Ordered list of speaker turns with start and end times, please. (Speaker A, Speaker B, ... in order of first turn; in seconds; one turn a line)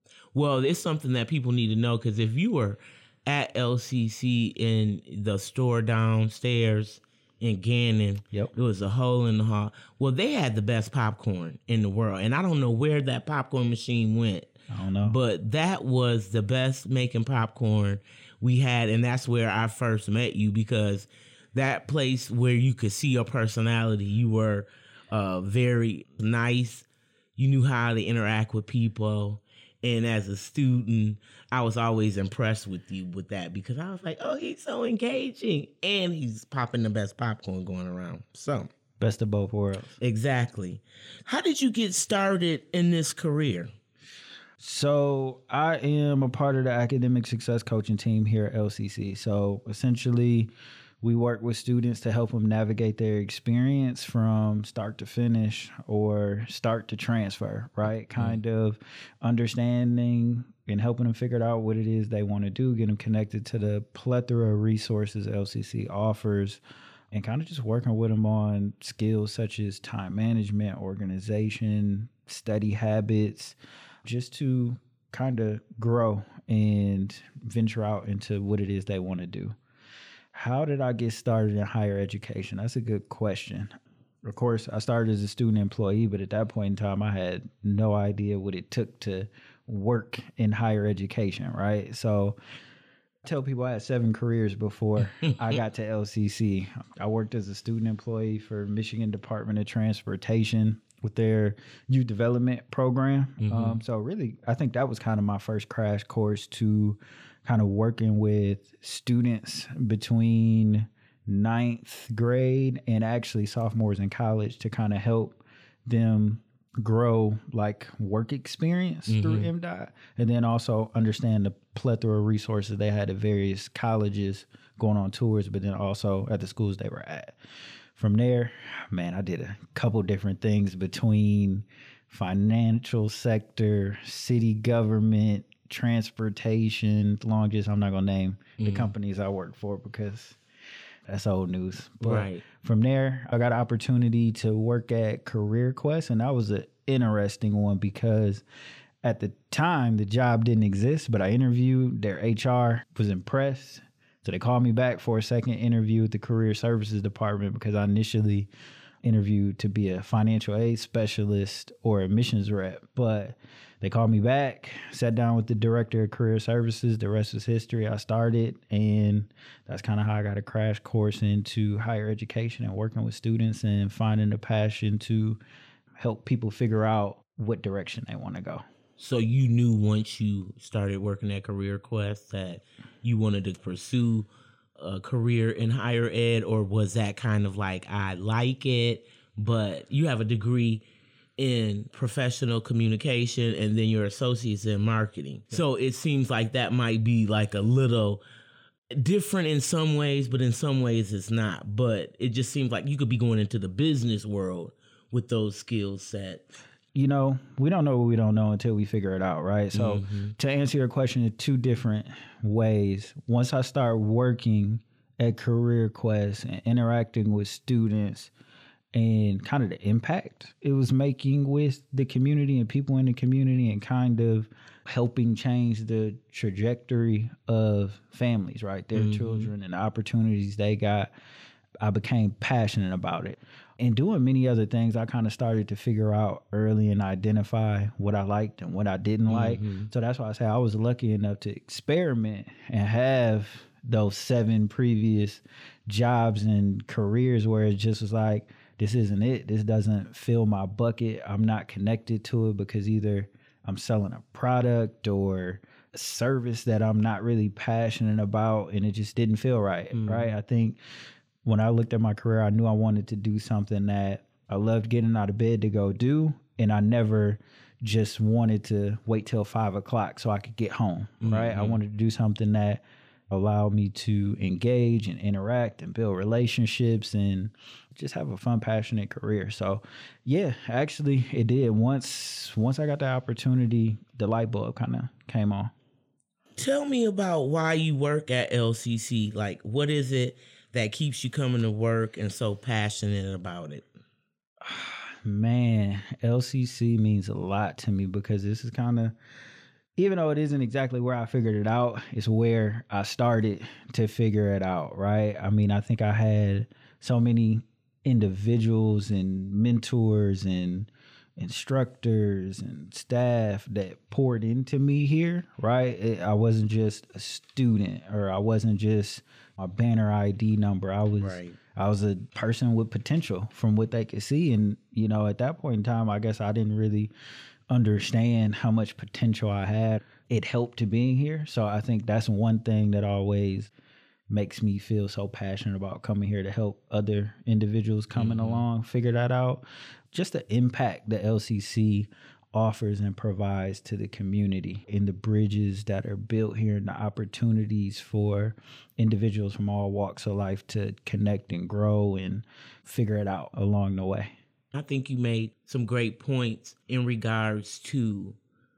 Speaker A: 0.3-38.7
Speaker B: 14.7-15.2
Speaker B: 39.0-40.0
Speaker A: 40.0-43.7
Speaker B: 44.6-50.5
Speaker B: 51.0-79.5
Speaker B: 80.3-83.7
Speaker B: 84.2-92.4
Speaker B: 93.2-127.4
Speaker A: 103.4-103.8
Speaker A: 119.1-119.5
Speaker B: 128.0-140.4
Speaker A: 138.6-138.9
Speaker B: 141.1-148.4
Speaker A: 142.0-142.4
Speaker B: 149.0-158.5
Speaker B: 159.0-175.4
Speaker B: 176.0-178.6
Speaker A: 179.0-190.8
Speaker A: 191.4-198.2
Speaker A: 198.9-206.4
Speaker B: 206.9-218.3
Speaker A: 209.7-210.3
Speaker B: 218.9-231.1
Speaker A: 228.9-229.5
Speaker B: 231.8-260.8
Speaker A: 239.3-239.9
Speaker A: 259.9-260.3
Speaker B: 261.4-285.7
Speaker A: 271.2-271.8
Speaker A: 286.6-293.8
Speaker B: 294.6-299.1
Speaker B: 300.0-327.1
Speaker A: 321.2-321.6
Speaker B: 327.7-333.7
Speaker B: 334.3-354.3
Speaker A: 338.1-338.6
Speaker A: 354.7-358.4